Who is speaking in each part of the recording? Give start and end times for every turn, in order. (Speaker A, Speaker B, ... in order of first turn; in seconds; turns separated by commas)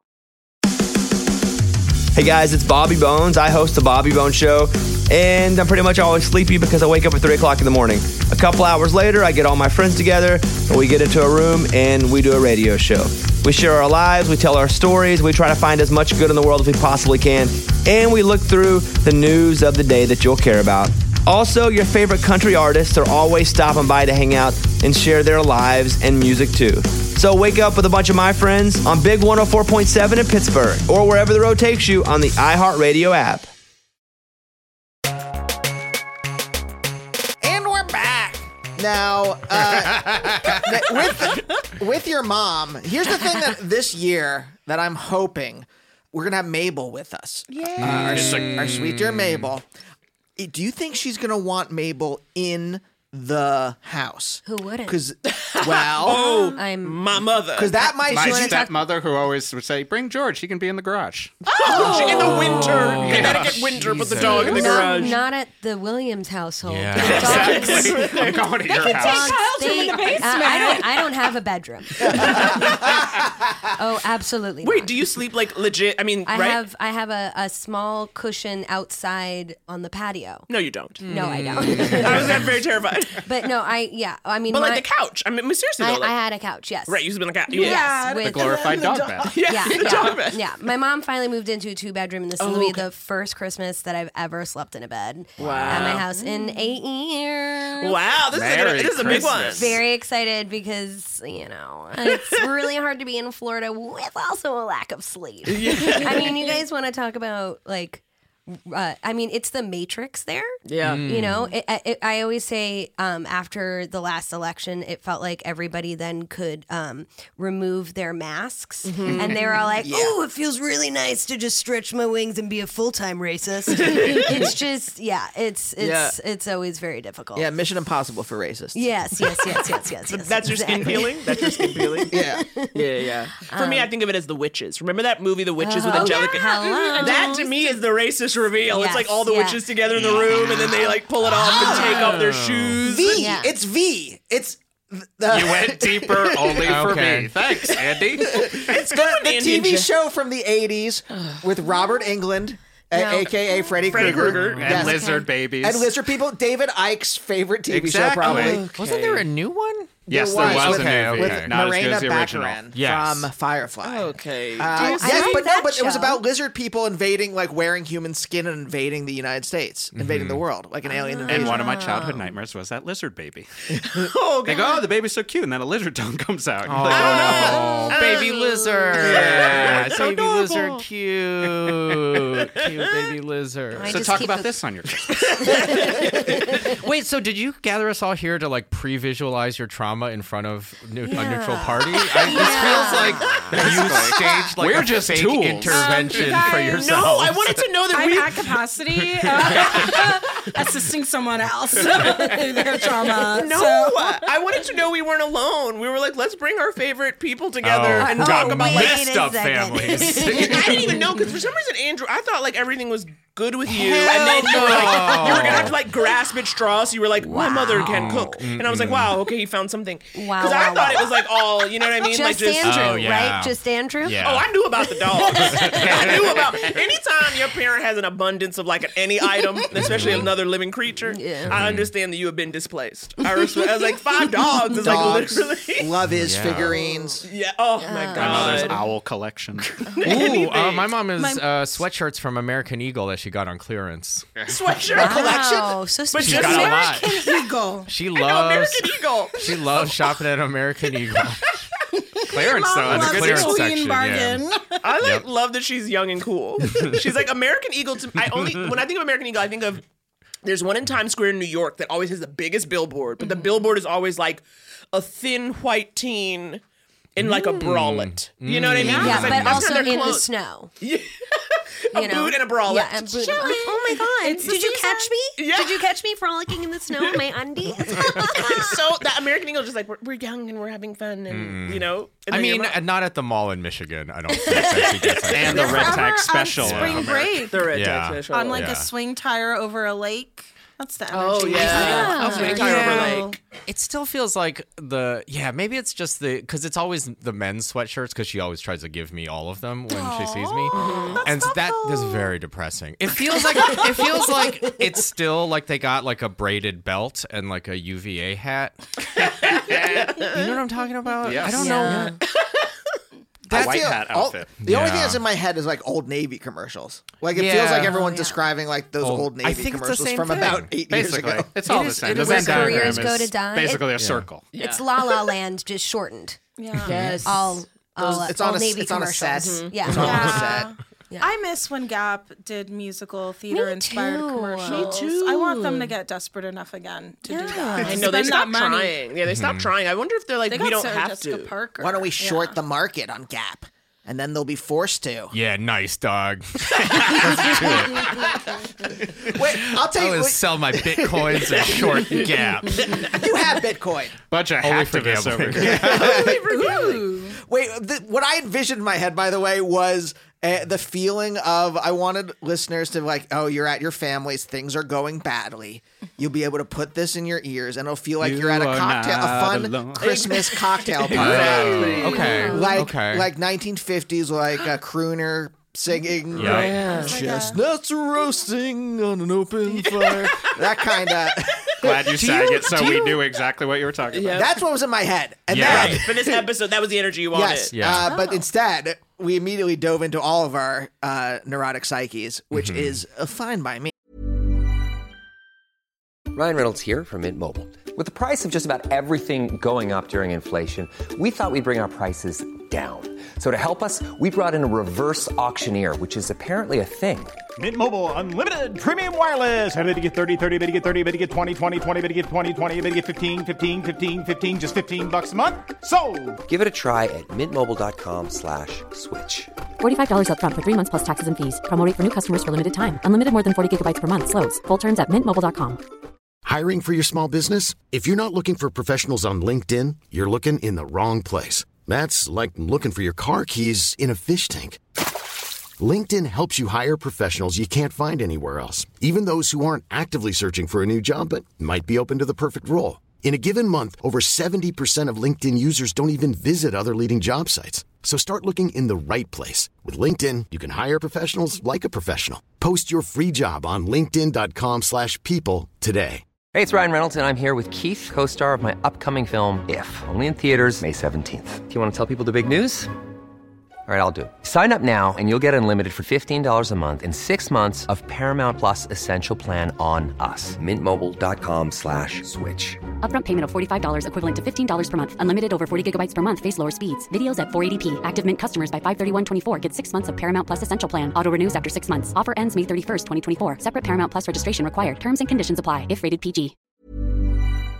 Speaker A: 2.1-33.5, Speaker B: 37.4-49.6, Speaker C: 47.5-47.9, Speaker D: 47.8-49.5, Speaker E: 47.8-48.7, Speaker B: 50.4-56.3, Speaker F: 54.5-55.0, Speaker G: 55.2-57.8, Speaker F: 56.0-57.2, Speaker B: 57.6-58.7, Speaker F: 58.0-58.8, Speaker E: 58.1-61.4, Speaker G: 61.5-65.2, Speaker F: 61.6-62.8, Speaker D: 62.5-65.0, Speaker E: 63.0-63.8, Speaker F: 64.2-73.1, Speaker D: 66.6-67.6, Speaker G: 67.0-68.5, Speaker E: 67.0-69.6, Speaker C: 68.7-71.1, Speaker F: 73.7-74.9, Speaker G: 74.6-76.6, Speaker F: 76.3-80.5, Speaker G: 80.5-81.0, Speaker D: 81.0-82.5, Speaker F: 81.1-82.6, Speaker G: 81.6-83.2, Speaker F: 83.2-84.9, Speaker G: 84.5-86.1, Speaker F: 85.8-88.8, Speaker G: 86.9-87.9, Speaker C: 87.5-89.3, Speaker E: 88.2-89.3, Speaker G: 89.2-90.4, Speaker F: 89.4-98.0, Speaker G: 92.4-92.8, Speaker G: 95.4-96.1, Speaker E: 95.4-96.0, Speaker G: 97.8-99.8, Speaker E: 98.3-99.8, Speaker F: 99.0-127.5, Speaker G: 102.0-102.4, Speaker G: 105.5-106.6, Speaker G: 110.7-111.1, Speaker D: 110.8-111.5, Speaker G: 118.8-119.4, Speaker B: 119.8-120.2, Speaker G: 123.7-124.5, Speaker G: 125.8-126.1, Speaker B: 127.3-128.8, Speaker F: 128.7-132.8, Speaker G: 130.1-132.1, Speaker B: 132.1-132.4, Speaker G: 132.7-143.4, Speaker F: 133.5-133.9, Speaker F: 135.6-137.5, Speaker C: 136.5-137.5, Speaker F: 138.7-139.6, Speaker D: 140.1-140.8, Speaker D: 141.3-142.8, Speaker F: 141.6-142.1, Speaker B: 142.8-146.7, Speaker F: 143.2-143.5, Speaker E: 145.3-148.6, Speaker D: 146.6-147.4, Speaker G: 148.3-149.9, Speaker B: 148.3-158.7, Speaker F: 152.9-153.7, Speaker G: 153.9-154.8, Speaker E: 154.0-155.9, Speaker F: 154.9-155.3, Speaker E: 157.7-158.6, Speaker D: 158.1-161.6, Speaker G: 158.4-159.2, Speaker B: 160.1-171.8, Speaker E: 160.1-162.8, Speaker D: 162.7-163.2, Speaker G: 163.8-165.4, Speaker F: 164.7-166.2, Speaker D: 169.9-170.4, Speaker F: 170.9-172.3, Speaker E: 171.3-173.5, Speaker G: 173.8-174.8, Speaker E: 174.4-177.6, Speaker D: 176.6-184.2, Speaker G: 176.8-180.5, Speaker E: 179.2-180.0, Speaker F: 183.7-184.6, Speaker E: 183.8-185.2, Speaker F: 185.2-186.7, Speaker G: 185.4-186.2, Speaker D: 186.7-197.6, Speaker F: 191.0-194.0, Speaker E: 193.5-196.5, Speaker C: 195.7-196.9, Speaker G: 196.6-198.4, Speaker C: 197.9-204.3, Speaker D: 199.1-199.9, Speaker G: 203.3-209.0, Speaker D: 207.6-211.0, Speaker F: 208.0-211.3, Speaker G: 210.3-222.8, Speaker D: 213.7-215.8, Speaker F: 214.3-215.5, Speaker F: 217.2-218.2, Speaker D: 217.4-219.1, Speaker F: 220.1-224.2, Speaker D: 222.6-224.5, Speaker G: 224.2-235.9, Speaker F: 225.1-226.1, Speaker D: 225.4-226.2, Speaker E: 225.8-226.4, Speaker D: 229.8-230.3, Speaker F: 231.1-231.6, Speaker D: 231.5-231.9, Speaker B: 234.8-237.2, Speaker D: 236.1-236.8, Speaker G: 237.2-238.8, Speaker F: 237.8-238.8, Speaker E: 238.2-239.7, Speaker D: 238.2-238.6, Speaker G: 239.9-240.9, Speaker D: 240.0-244.3, Speaker C: 241.1-241.8, Speaker G: 244.5-247.1, Speaker F: 244.9-247.5, Speaker D: 246.2-247.2, Speaker C: 246.4-247.9, Speaker D: 247.9-251.5, Speaker G: 248.1-249.9, Speaker C: 252.0-254.8, Speaker E: 252.3-253.7, Speaker D: 252.9-254.5, Speaker G: 254.8-259.8, Speaker D: 255.0-255.2, Speaker D: 256.7-257.0, Speaker G: 260.4-266.6, Speaker G: 267.2-270.3, Speaker D: 267.2-269.9, Speaker C: 268.8-269.2, Speaker F: 268.8-270.7, Speaker G: 270.8-273.7, Speaker F: 271.9-278.8, Speaker C: 273.3-275.1, Speaker G: 275.4-275.8, Speaker G: 277.9-282.8, Speaker D: 281.3-287.1, Speaker E: 285.3-287.5, Speaker C: 285.4-287.7, Speaker G: 287.4-288.7, Speaker D: 287.7-288.9, Speaker C: 288.3-293.4, Speaker G: 291.1-293.3, Speaker F: 291.7-292.6, Speaker D: 291.7-308.8, Speaker C: 299.9-302.4, Speaker G: 300.7-301.2, Speaker F: 303.8-304.2, Speaker G: 309.2-310.6, Speaker E: 309.6-310.1, Speaker D: 310.2-312.2, Speaker E: 311.2-311.8, Speaker F: 311.5-312.2, Speaker B: 313.5-321.5, Speaker E: 313.5-314.6, Speaker D: 314.6-315.2, Speaker D: 317.3-318.1, Speaker F: 317.8-318.4, Speaker D: 319.0-320.7, Speaker E: 320.9-324.5, Speaker D: 321.7-323.1, Speaker F: 321.7-323.9, Speaker D: 324.0-324.3, Speaker G: 324.5-324.8, Speaker F: 324.6-326.4, Speaker C: 326.6-327.1, Speaker G: 326.9-327.3, Speaker F: 326.9-331.3, Speaker B: 328.0-330.7, Speaker G: 329.4-329.8, Speaker C: 329.9-338.9, Speaker F: 333.5-335.1, Speaker G: 334.6-335.9, Speaker F: 337.3-338.1, Speaker G: 337.8-341.5, Speaker D: 339.3-339.7, Speaker C: 340.5-342.6, Speaker B: 341.8-345.3, Speaker D: 345.3-348.3, Speaker B: 349.3-351.8, Speaker D: 349.6-353.1, Speaker B: 352.9-354.2, Speaker E: 354.3-356.1, Speaker D: 354.6-356.3, Speaker B: 355.6-382.8, Speaker G: 355.9-356.9, Speaker C: 356.3-357.4, Speaker E: 368.2-370.3, Speaker G: 370.0-372.5, Speaker D: 371.1-373.3, Speaker D: 376.4-376.8, Speaker G: 376.4-377.2, Speaker C: 376.8-377.6, Speaker E: 381.8-384.5, Speaker G: 384.1-384.5, Speaker B: 384.3-386.4, Speaker D: 385.5-386.0, Speaker G: 385.5-387.7, Speaker B: 387.3-393.9, Speaker D: 387.7-388.1, Speaker C: 388.1-388.4, Speaker D: 392.5-393.0, Speaker H: 396.3-407.3, Speaker I: 407.6-416.4, Speaker H: 416.5-419.5, Speaker J: 419.8-425.8, Speaker K: 426.4-434.8, Speaker K: 435.8-456.2, Speaker H: 456.5-462.9, Speaker H: 463.9-472.8, Speaker J: 473.0-486.5